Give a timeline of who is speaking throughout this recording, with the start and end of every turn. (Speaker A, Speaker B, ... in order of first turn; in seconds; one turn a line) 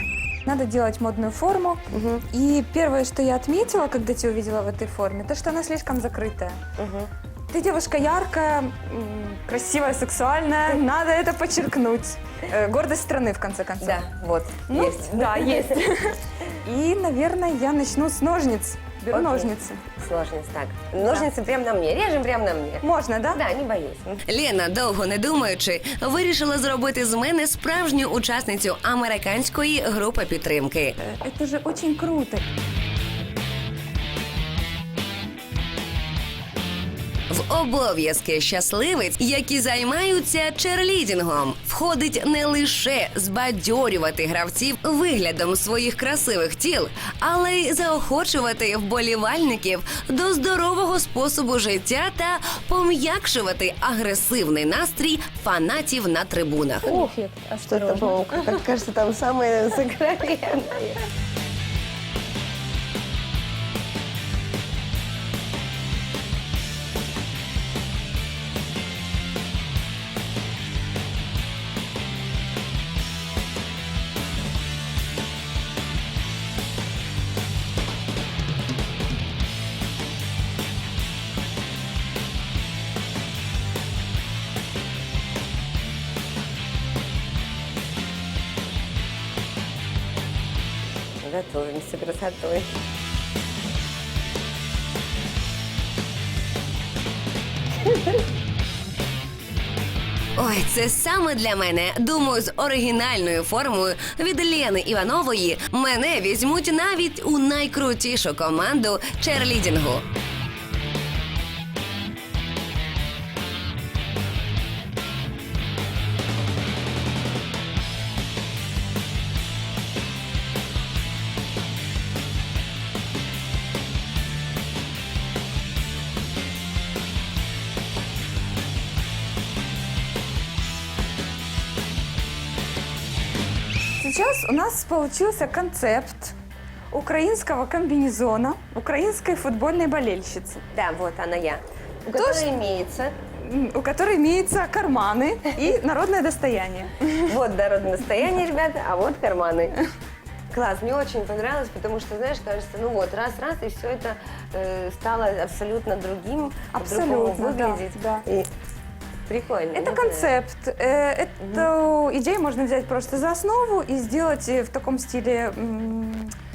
Speaker A: 0.5-6.6
Speaker B: 1.9-2.2
Speaker B: 6.8-7.1
Speaker A: 7.5-14.0
Speaker B: 13.8-15.8
Speaker A: 14.7-19.8
Speaker B: 19.1-24.2
Speaker A: 21.0-21.3
Speaker A: 22.8-23.4
Speaker C: 24.3-31.0
Speaker A: 31.0-32.4
Speaker C: 37.3-57.0
Speaker A: 56.9-58.2
Speaker B: 57.7-61.0
Speaker B: 91.2-92.7
Speaker C: 100.4-110.1
Speaker A: 134.0-136.3
Speaker A: 136.9-140.6
Speaker B: 140.7-143.1
Speaker A: 142.2-142.5
Speaker A: 143.4-147.4
Speaker B: 147.3-149.8
Speaker B: 150.5-158.5
Speaker A: 156.7-158.3
Speaker B: 159.3-160.3
Speaker A: 159.7-166.3